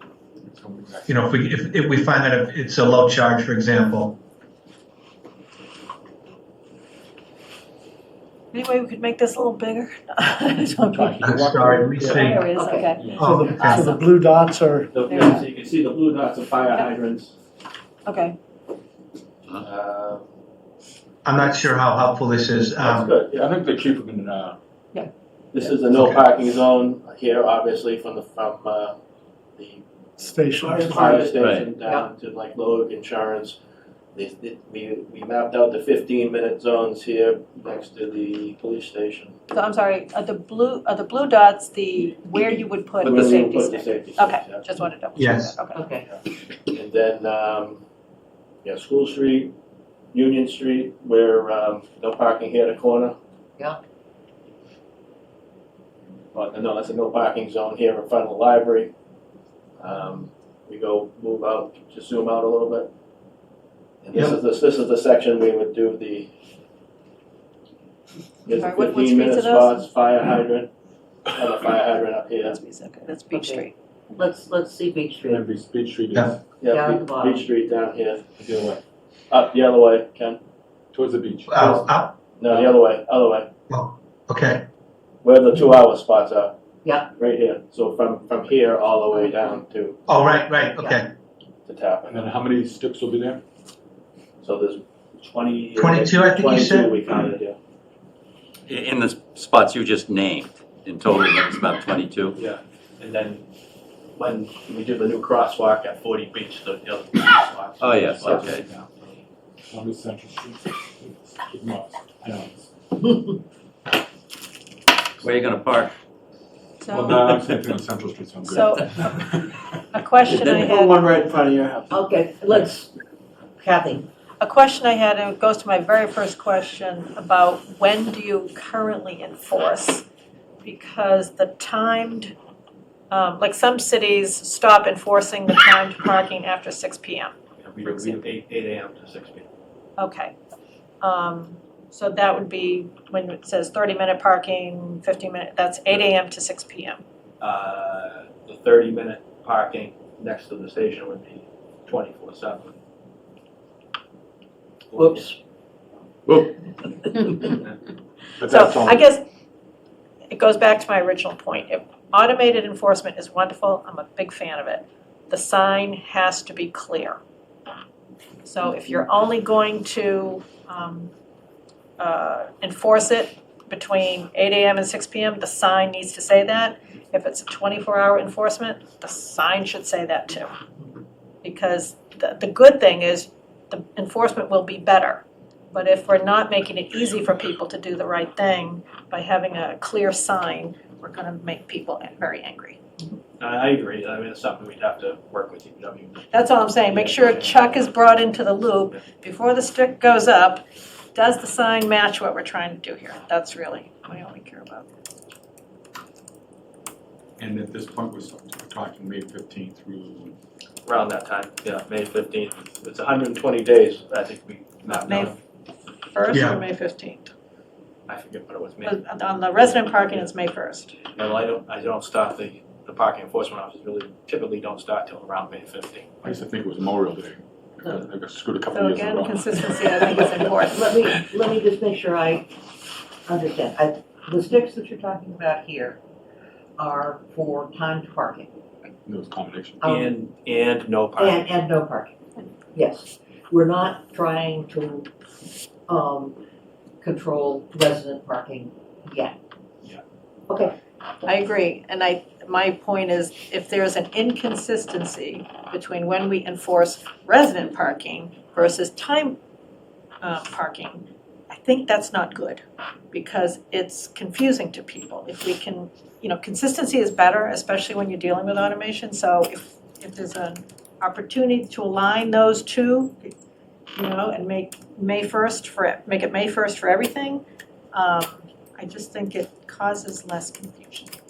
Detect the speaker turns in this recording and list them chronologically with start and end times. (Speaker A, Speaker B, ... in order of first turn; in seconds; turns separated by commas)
Speaker A: 0.4-1.2, Speaker B: 1.1-4.2, Speaker C: 8.5-14.2, Speaker A: 10.9-12.1, Speaker B: 11.2-12.4, Speaker D: 12.5-12.9, Speaker A: 13.0-13.3, Speaker B: 13.1-14.0, Speaker E: 13.2-14.9, Speaker F: 14.9-17.3, Speaker C: 15.1-15.4, Speaker C: 18.0-18.4, Speaker F: 19.6-20.2, Speaker B: 21.2-23.1, Speaker F: 22.8-23.5, Speaker A: 23.3-24.6, Speaker F: 25.5-28.9, Speaker B: 25.9-26.2, Speaker F: 29.6-29.8, Speaker E: 30.2-31.3, Speaker F: 30.6-33.6, Speaker D: 31.1-32.1, Speaker G: 31.4-31.7, Speaker F: 34.1-39.4, Speaker C: 39.5-45.8, Speaker F: 43.0-44.6, Speaker B: 45.1-45.5, Speaker D: 45.7-46.1, Speaker F: 46.7-47.8, Speaker F: 48.6-49.5, Speaker F: 50.1-53.1, Speaker F: 56.3-58.9, Speaker F: 59.8-62.9, Speaker F: 64.0-66.3, Speaker F: 68.5-70.7, Speaker C: 68.5-69.9, Speaker F: 71.3-72.6, Speaker C: 72.4-73.7, Speaker D: 73.3-75.5, Speaker A: 75.2-76.4, Speaker F: 76.6-78.2, Speaker D: 76.6-77.5, Speaker A: 78.4-78.8, Speaker F: 79.3-80.4, Speaker A: 80.9-81.8, Speaker B: 81.5-82.2, Speaker F: 81.5-81.8, Speaker F: 82.4-83.5, Speaker B: 83.7-84.7, Speaker F: 85.2-86.5, Speaker D: 86.8-87.1, Speaker F: 87.1-90.0, Speaker D: 89.1-89.5, Speaker B: 90.1-91.1, Speaker D: 90.5-91.0, Speaker F: 91.7-92.2, Speaker A: 92.1-93.4, Speaker F: 94.4-97.6, Speaker B: 95.8-97.1, Speaker G: 98.7-102.3, Speaker F: 102.3-103.4, Speaker F: 104.2-109.2, Speaker G: 107.8-108.7, Speaker A: 109.7-112.7, Speaker G: 115.2-115.9, Speaker C: 116.8-117.2, Speaker A: 116.9-119.8, Speaker C: 118.4-118.9, Speaker C: 119.9-121.1, Speaker F: 120.2-122.0, Speaker D: 121.9-122.9, Speaker D: 123.6-124.1, Speaker C: 124.4-130.1, Speaker C: 130.6-132.3, Speaker C: 133.1-138.2, Speaker F: 137.6-139.5, Speaker C: 140.0-140.3, Speaker C: 141.0-147.0, Speaker F: 147.4-152.7, Speaker F: 154.9-155.3, Speaker D: 154.9-155.4, Speaker F: 157.4-157.7, Speaker A: 158.4-159.1, Speaker C: 158.4-159.2, Speaker C: 160.3-167.2, Speaker C: 168.4-171.1, Speaker C: 172.0-180.5, Speaker C: 181.4-192.8, Speaker F: 193.4-196.3, Speaker C: 196.3-204.9, Speaker F: 196.8-197.9, Speaker A: 207.4-210.3, Speaker F: 210.8-215.4, Speaker C: 214.8-215.3, Speaker C: 216.1-217.3, Speaker B: 216.3-216.6, Speaker F: 218.1-219.0, Speaker C: 218.8-221.0, Speaker F: 219.6-220.3, Speaker F: 221.1-226.1, Speaker A: 226.2-230.1, Speaker C: 228.7-230.9, Speaker D: 230.7-232.5, Speaker D: 233.2-236.0, Speaker D: 236.8-238.5, Speaker A: 239.1-239.8, Speaker D: 239.8-240.2, Speaker F: 239.8-241.5, Speaker D: 241.2-242.1, Speaker D: 242.7-245.1, Speaker D: 245.9-246.3, Speaker D: 247.0-249.3, Speaker D: 250.5-250.8, Speaker C: 251.2-259.4, Speaker C: 260.2-273.3, Speaker C: 273.9-281.1